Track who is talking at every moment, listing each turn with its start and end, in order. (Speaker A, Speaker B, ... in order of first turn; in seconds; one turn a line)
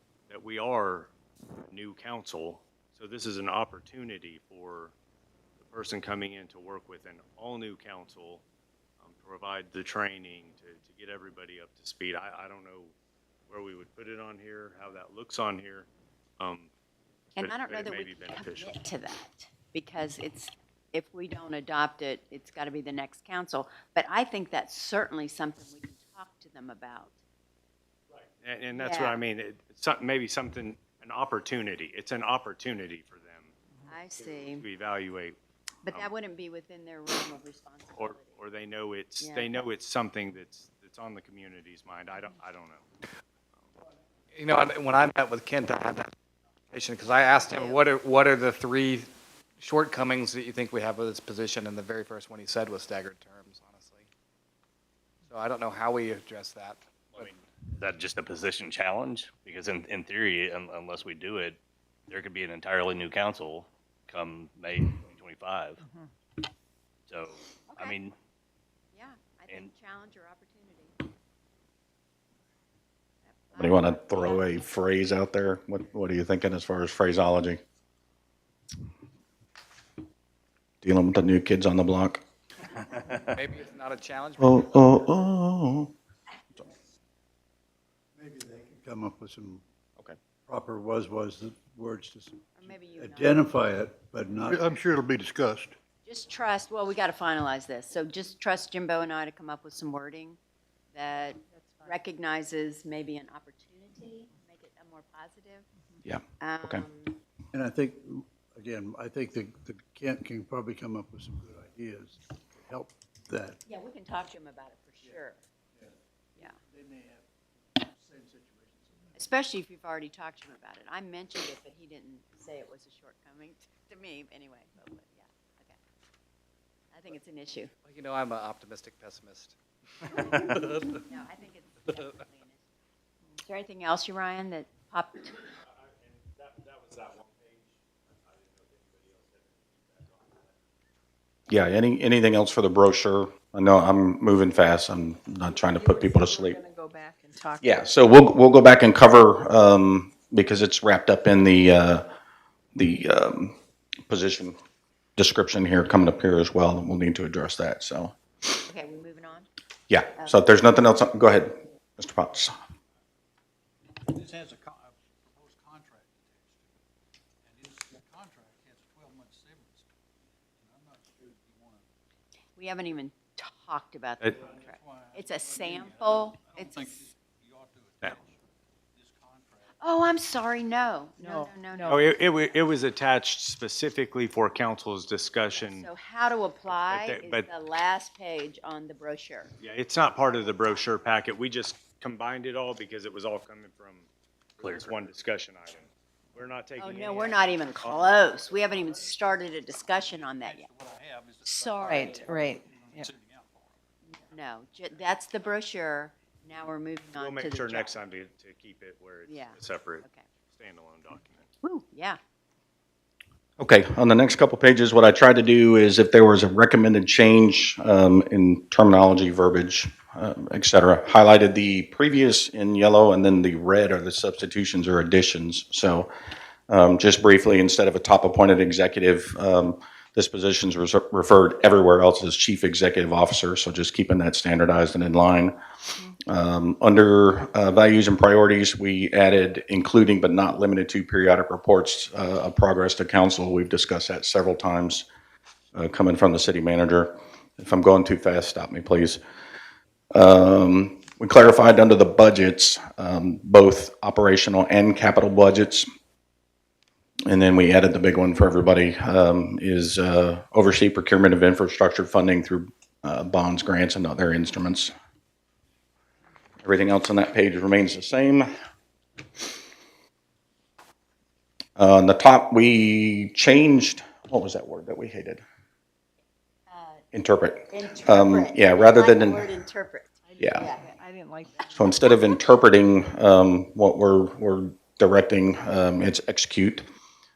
Speaker A: 0.3-1.1
Speaker A: 1.7-4.9
Speaker A: 5.6-8.4
Speaker A: 9.0-12.9
Speaker A: 13.5-16.7
Speaker A: 17.4-18.8
Speaker B: 17.4-27.2
Speaker A: 28.1-33.5
Speaker B: 28.7-29.2
Speaker B: 33.9-34.6
Speaker A: 34.2-35.4
Speaker B: 35.8-38.4
Speaker A: 38.0-42.9
Speaker B: 39.2-39.6
Speaker C: 44.3-46.1
Speaker C: 46.7-54.1
Speaker B: 47.3-47.8
Speaker C: 55.3-57.3
Speaker D: 57.1-61.6
Speaker D: 62.1-65.8
Speaker D: 67.1-68.2
Speaker B: 67.7-68.0
Speaker B: 68.9-71.0
Speaker B: 73.2-74.6
Speaker E: 73.6-77.6
Speaker E: 80.8-82.2
Speaker C: 83.2-84.7
Speaker E: 84.4-85.9
Speaker F: 88.2-89.6
Speaker F: 90.5-94.8
Speaker B: 92.6-93.6
Speaker G: 94.6-95.7
Speaker B: 96.1-100.4
Speaker B: 100.9-105.7
Speaker H: 101.3-102.0
Speaker E: 106.0-106.9
Speaker B: 106.4-107.2
Speaker F: 107.5-113.6
Speaker B: 113.7-115.4
Speaker F: 115.8-119.2
Speaker B: 119.2-125.8
Speaker B: 126.9-127.7
Speaker C: 127.8-131.1
Speaker B: 131.0-132.7
Speaker B: 133.4-135.4
Speaker A: 135.6-140.6
Speaker E: 141.5-146.6
Speaker H: 145.5-147.8
Speaker E: 147.6-152.1
Speaker E: 152.8-153.6
Speaker E: 154.1-154.6
Speaker E: 155.2-158.2
Speaker B: 158.7-159.5
Speaker E: 159.9-162.6
Speaker B: 160.2-160.5
Speaker F: 164.1-164.7
Speaker G: 164.2-166.2
Speaker F: 165.6-166.4
Speaker F: 167.5-168.3
Speaker G: 167.6-168.9
Speaker F: 168.9-169.6
Speaker F: 170.6-171.8
Speaker G: 170.8-171.6
Speaker B: 172.6-177.0
Speaker G: 176.7-178.2
Speaker F: 177.5-178.0
Speaker G: 179.0-179.6
Speaker B: 179.8-182.2
Speaker H: 181.2-182.0
Speaker A: 181.9-185.9
Speaker B: 185.5-189.5
Speaker A: 186.9-187.5
Speaker A: 189.6-198.1
Speaker D: 194.6-195.1
Speaker B: 196.8-200.7
Speaker G: 200.1-203.6
Speaker B: 201.5-202.1
Speaker H: 201.8-203.1
Speaker B: 204.1-208.0
Speaker A: 207.2-211.5
Speaker B: 209.3-210.2
Speaker B: 211.6-212.2
Speaker E: 213.6-226.1
Speaker E: 226.7-235.6
Speaker E: 236.2-245.1
Speaker E: 245.7-249.2
Speaker E: 250.1-255.9
Speaker E: 257.3-264.9
Speaker E: 266.6-268.5
Speaker E: 271.8-275.4
Speaker B: 276.7-277.1
Speaker E: 277.1-279.5
Speaker B: 277.7-280.9
Speaker H: 280.2-282.0
Speaker E: 280.4-280.7
Speaker E: 281.8-286.9